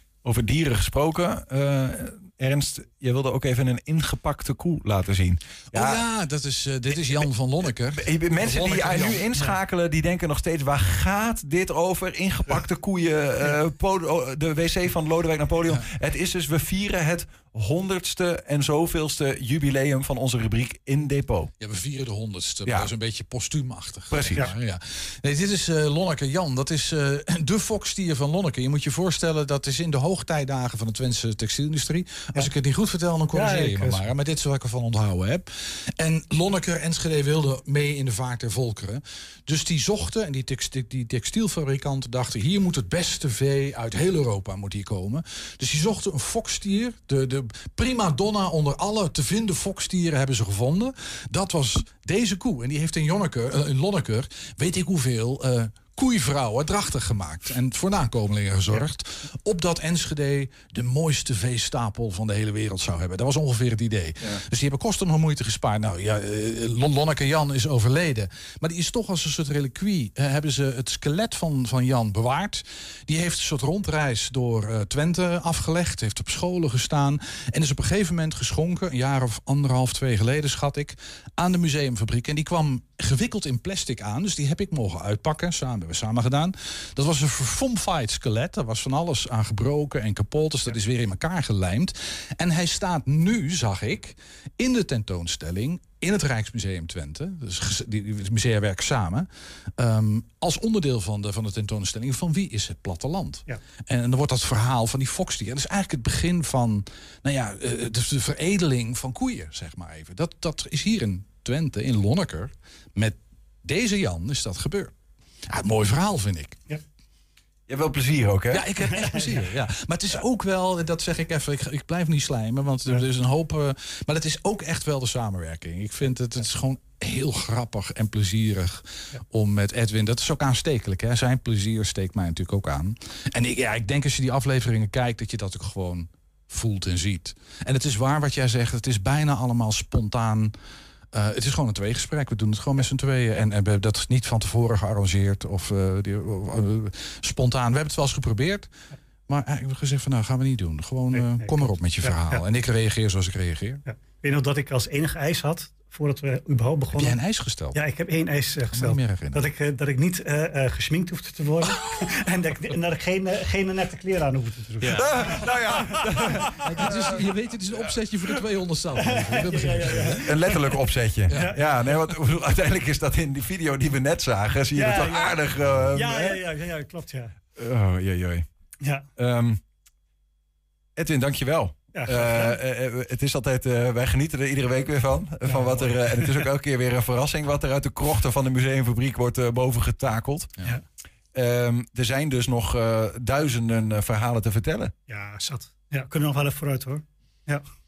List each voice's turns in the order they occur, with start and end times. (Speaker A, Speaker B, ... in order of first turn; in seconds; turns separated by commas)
Speaker A: 0.2-6.0, Speaker B: 5.7-9.3, Speaker A: 8.0-21.5, Speaker B: 21.6-114.9, Speaker A: 24.1-24.4, Speaker C: 33.3-34.0, Speaker B: 115.5-116.6, Speaker A: 117.7-118.7, Speaker B: 118.5-140.5, Speaker C: 118.9-119.3, Speaker B: 141.1-148.7, Speaker B: 149.3-153.8, Speaker C: 151.1-152.4, Speaker C: 153.8-157.2, Speaker B: 156.9-157.8, Speaker C: 157.7-165.2, Speaker B: 158.7-159.4, Speaker A: 164.9-167.2, Speaker C: 165.9-166.3, Speaker B: 166.6-170.2, Speaker C: 169.0-170.6, Speaker A: 170.2-176.4, Speaker C: 171.3-172.0, Speaker C: 174.7-175.4, Speaker C: 175.9-177.3, Speaker A: 177.6-178.4, Speaker C: 178.8-179.1, Speaker A: 179.2-179.6, Speaker A: 181.0-190.5, Speaker C: 181.9-182.6, Speaker C: 185.5-186.3, Speaker A: 191.3-194.9, Speaker C: 195.1-197.6